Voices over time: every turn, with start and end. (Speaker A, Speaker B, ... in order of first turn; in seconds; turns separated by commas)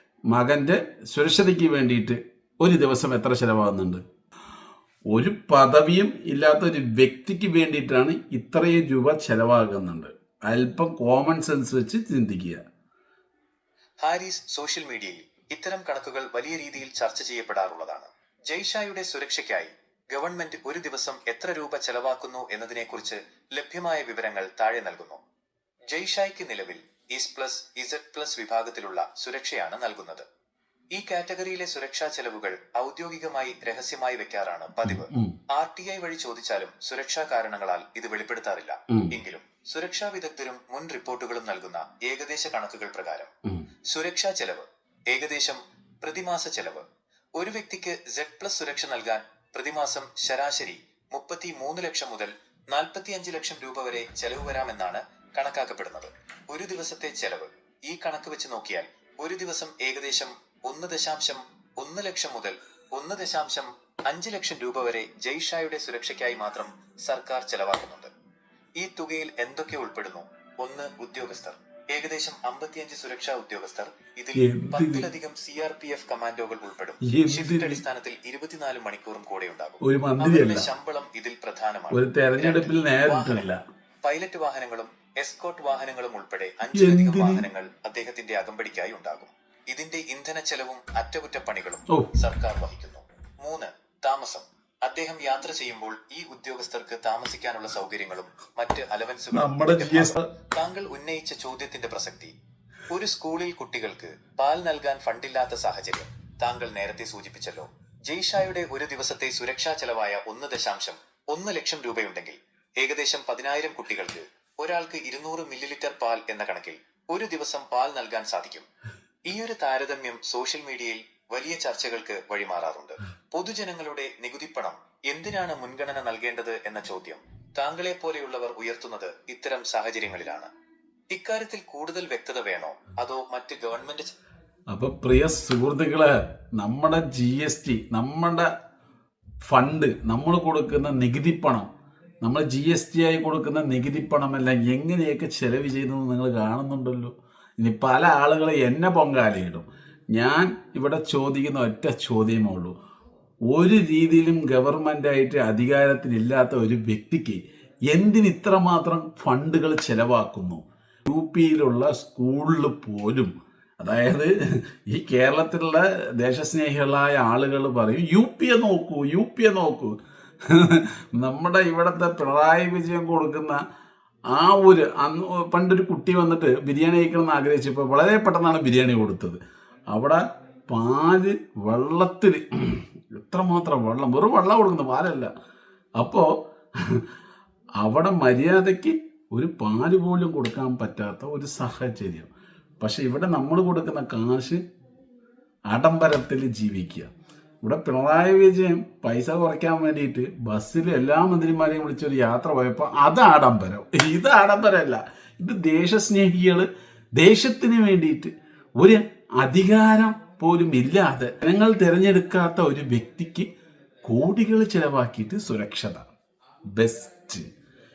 Speaker A: 0.3-4.0, Speaker A: 5.1-12.6, Speaker B: 14.0-25.2, Speaker B: 25.9-30.2, Speaker B: 30.9-43.3, Speaker A: 34.9-35.4, Speaker B: 43.9-46.9, Speaker B: 47.4-68.1, Speaker B: 68.8-83.5, Speaker A: 74.4-75.1, Speaker A: 77.0-77.8, Speaker A: 79.8-80.7, Speaker A: 81.9-83.6, Speaker B: 84.0-102.3, Speaker A: 86.8-87.4, Speaker A: 99.3-100.3, Speaker B: 102.9-118.7, Speaker B: 119.3-130.5, Speaker B: 131.1-134.2, Speaker A: 134.7-138.5, Speaker A: 139.4-141.7, Speaker A: 142.2-152.8, Speaker A: 153.5-169.9, Speaker A: 170.5-173.6, Speaker A: 174.3-179.4, Speaker A: 179.9-185.3, Speaker A: 186.0-187.1, Speaker A: 187.8-192.3, Speaker A: 192.8-194.6, Speaker A: 195.7-197.1, Speaker A: 197.6-213.5, Speaker A: 214.1-216.1, Speaker A: 216.8-217.5